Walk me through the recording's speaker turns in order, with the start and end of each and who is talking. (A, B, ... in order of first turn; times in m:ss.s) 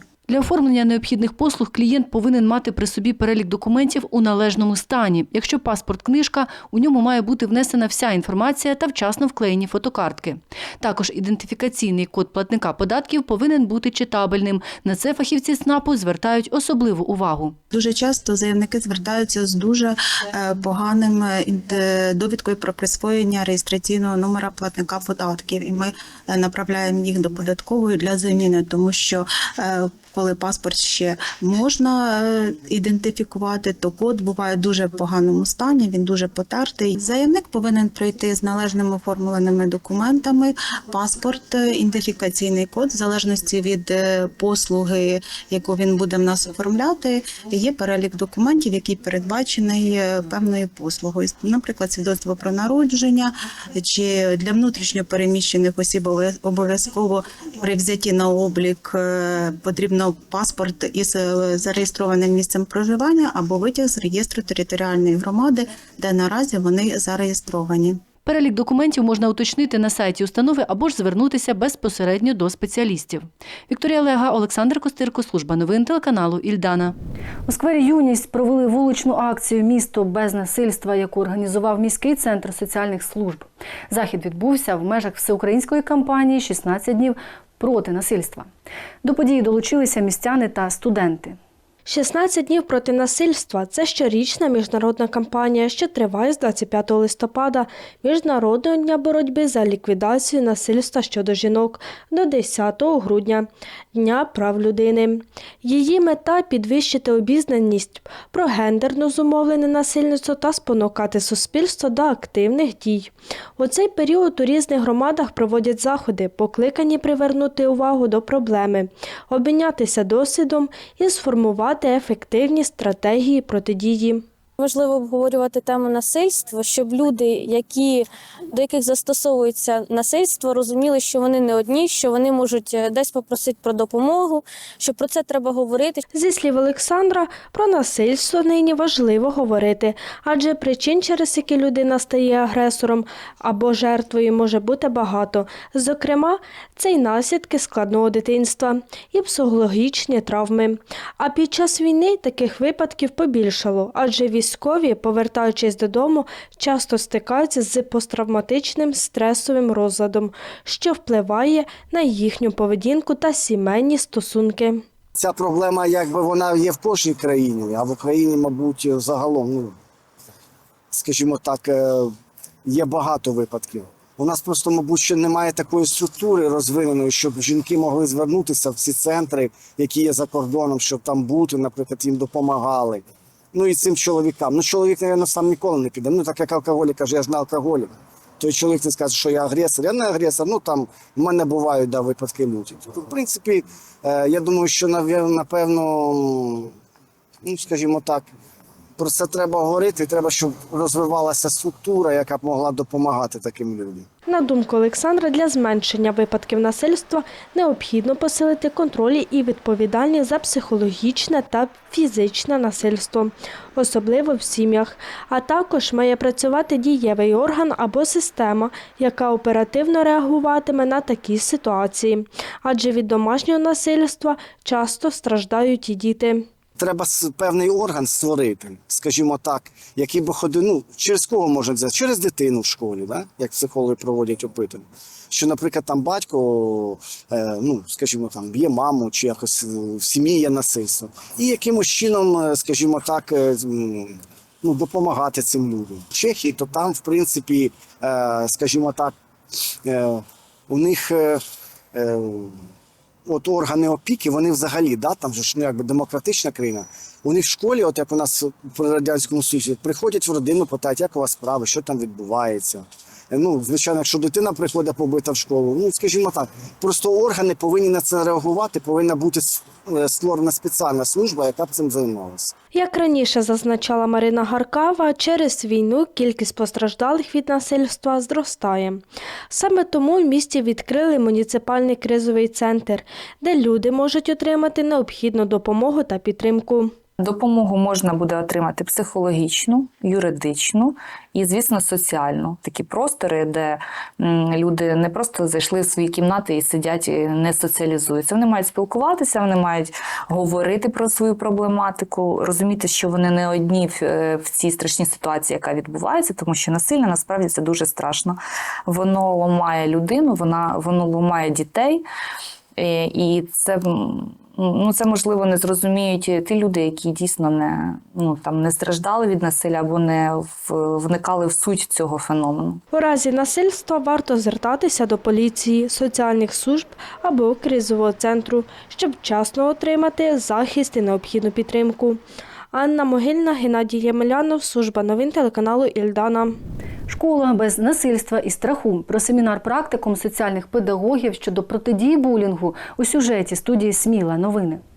0:00.3-0:17.6 A
0:17.7-1:08.0 B
1:08.2-1:16.9 A
1:17.5-1:28.5 A
1:29.0-1:31.4 A
1:31.9-2:04.2 C
2:04.6-2:16.0 D
2:16.1-2:44.8 C
2:45.2-2:49.8 E
2:50.9-2:52.1 E
2:52.7-3:16.7 E
3:17.4-3:18.3 E
3:19.0-3:24.1 E
3:24.3-3:46.4 C
3:46.8-4:09.2 E
4:09.8-4:11.4 E
4:11.9-4:12.6 E
4:13.3-4:32.5 E
4:32.7-4:46.9 C
4:47.2-5:12.0 F
5:12.8-5:22.8 F
5:22.9-5:32.2 C
5:32.7-5:36.6 C
5:37.1-5:44.8 A